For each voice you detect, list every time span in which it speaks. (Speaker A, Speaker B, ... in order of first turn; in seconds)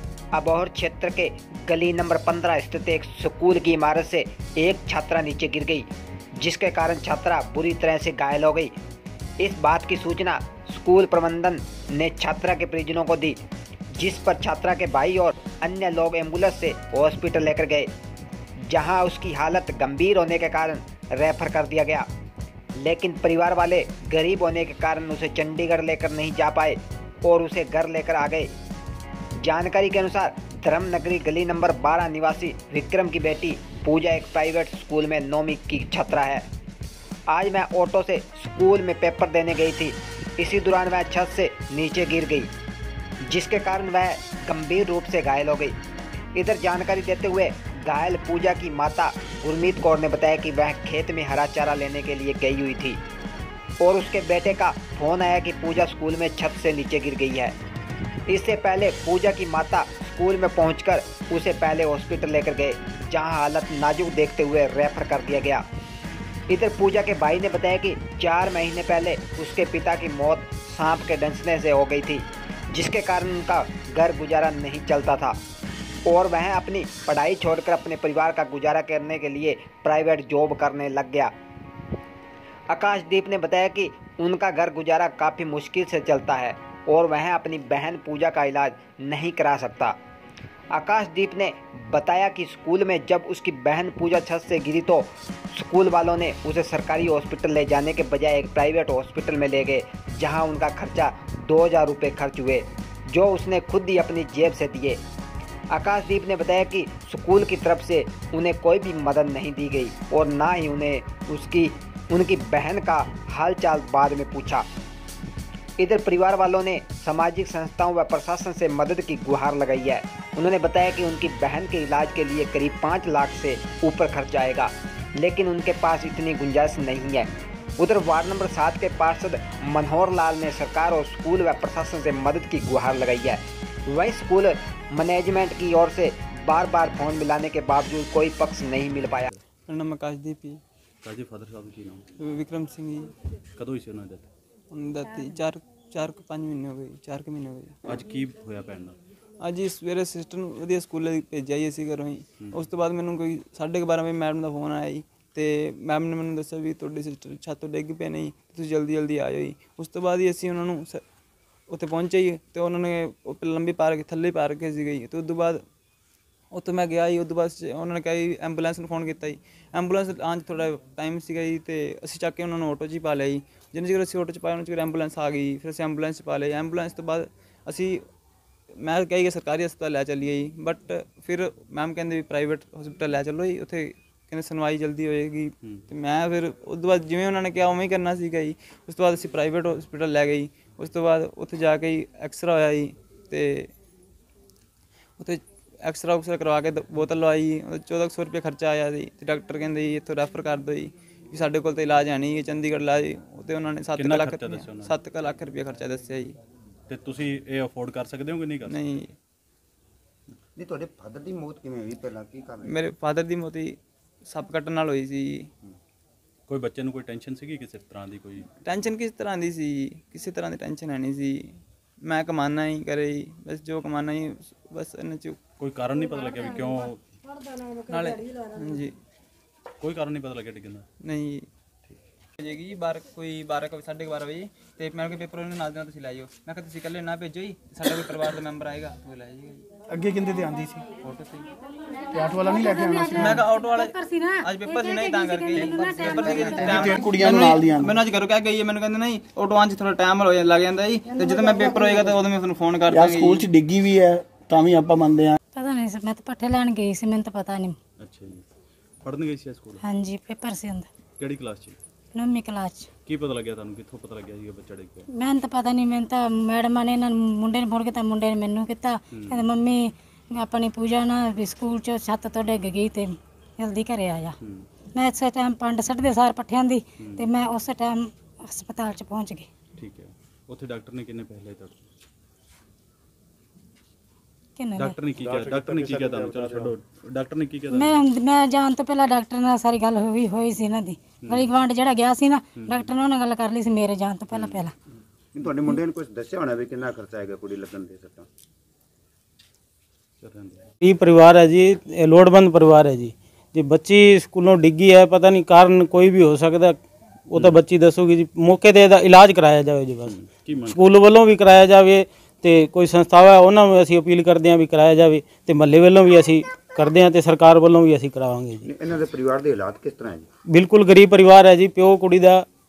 Speaker A: 0.3-8.8, 9.4-13.4, 14.0-17.9, 18.7-22.1, 22.8-28.5, 29.4-36.5, 37.3-42.5, 43.3-45.8, 46.3-53.0, 53.8-57.5, 58.3-65.7, 66.5-75.4, 76.1-81.3, 82.7-90.0, 90.7-105.0, 105.7-114.7, 115.8-127.3, 127.8-139.3
Speaker B: 139.7-140.6, 142.2-143.1, 144.7-147.8, 149.4-161.0, 161.7-165.6, 166.5-178.0, 178.8-193.7, 195.2-206.4, 208.7-209.1, 212.6-213.8, 214.3-215.5, 218.7-225.4, 227.9-228.9, 231.0-231.5, 232.4-239.6, 241.0-241.5, 243.2-253.5
Speaker C: 141.0-142.1, 143.6-144.3, 147.9-149.0, 203.9-204.9, 206.9-209.0, 216.5-218.5, 225.6-227.1, 229.8-230.9, 258.0-258.5, 259.0-259.8, 261.2-261.8, 263.1-265.1, 269.1-269.4, 274.4-274.7, 277.0-277.3, 279.8-281.8, 284.8-288.0, 291.2-291.5, 292.6-293.0, 294.3-294.7, 300.2-300.7, 310.1-310.8
Speaker D: 210.6-212.8, 285.2-286.5, 295.3-298.3, 318.6-320.3
Speaker E: 239.9-240.9, 242.1-243.4, 246.6-248.0, 251.2-251.9, 252.9-255.4
Speaker F: 242.2-246.9, 255.6-257.8, 259.8-260.9, 262.1-262.9, 265.1-274.4, 274.9-279.5, 284.6-285.0, 287.7-294.7
Speaker G: 300.8-306.8, 307.3-318.7, 320.5-322.5